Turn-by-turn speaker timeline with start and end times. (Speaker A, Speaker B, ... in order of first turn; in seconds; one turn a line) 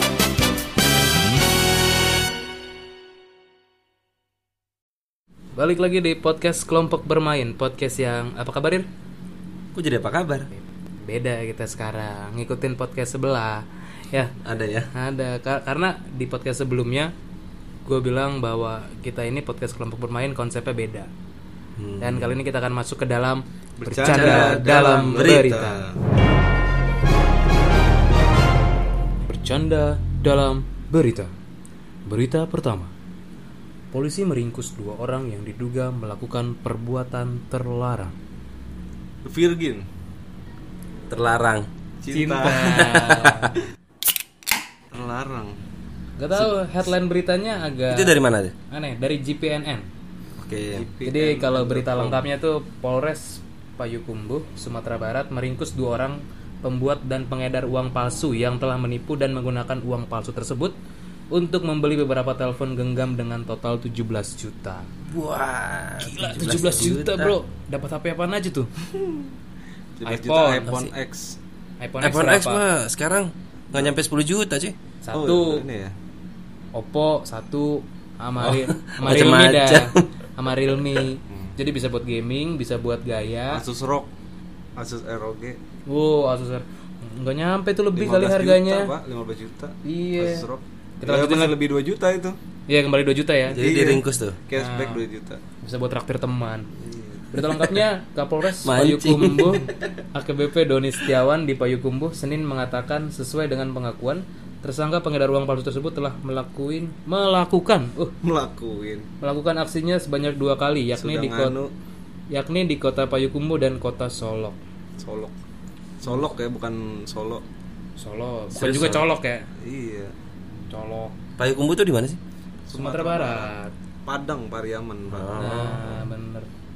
Speaker A: 5.6-8.8
Speaker B: 9.7-10.5
Speaker A: 11.0-14.3
Speaker B: 14.4-14.9
Speaker A: 14.9-17.1
Speaker A: 17.8-21.1
Speaker B: 21.8-22.4
Speaker A: 22.0-25.8
Speaker C: 23.8-25.9
Speaker B: 24.0-25.5
Speaker A: 29.2-31.3
Speaker A: 32.1-32.9
Speaker A: 33.9-38.1
Speaker C: 39.2-39.8
Speaker B: 41.1-41.6
Speaker C: 42.0-42.9
Speaker A: 42.1-43.5
Speaker B: 42.5-43.6
Speaker C: 44.9-45.5
Speaker A: 46.2-48.1
Speaker B: 47.9-48.5
Speaker A: 48.7-49.9
Speaker B: 50.4-50.9
Speaker C: 50.7-52.2
Speaker A: 51.0-60.7
Speaker A: 61.3-64.8
Speaker B: 65.1-67.3
Speaker A: 66.0-68.7
Speaker C: 66.4-66.9
Speaker C: 70.0-71.3
Speaker A: 70.0-70.7
Speaker B: 70.7-70.9
Speaker A: 71.8-72.6
Speaker B: 72.0-74.8
Speaker A: 75.0-75.6
Speaker C: 75.1-75.9
Speaker A: 76.7-83.6
Speaker B: 78.4-80.0
Speaker C: 83.5-84.1
Speaker C: 84.8-85.6
Speaker A: 85.9-88.9
Speaker C: 87.9-92.4
Speaker A: 89.8-90.5
Speaker A: 91.0-91.5
Speaker A: 92.7-93.6
Speaker B: 93.5-94.4
Speaker C: 93.6-95.4
Speaker A: 94.5-95.0
Speaker A: 95.6-96.7
Speaker C: 96.8-97.4
Speaker A: 97.3-108.1
Speaker B: 98.6-99.8
Speaker C: 108.2-109.0
Speaker A: 109.2-111.6
Speaker C: 111.0-111.7
Speaker A: 112.3-114.5
Speaker C: 115.0-115.3
Speaker C: 116.0-117.4
Speaker A: 118.0-119.4
Speaker B: 118.5-119.0
Speaker C: 119.6-120.1
Speaker A: 120.7-121.1
Speaker B: 121.4-122.2
Speaker C: 122.7-123.5
Speaker A: 122.7-123.7
Speaker C: 124.1-125.4
Speaker B: 125.1-126.0
Speaker A: 125.4-126.5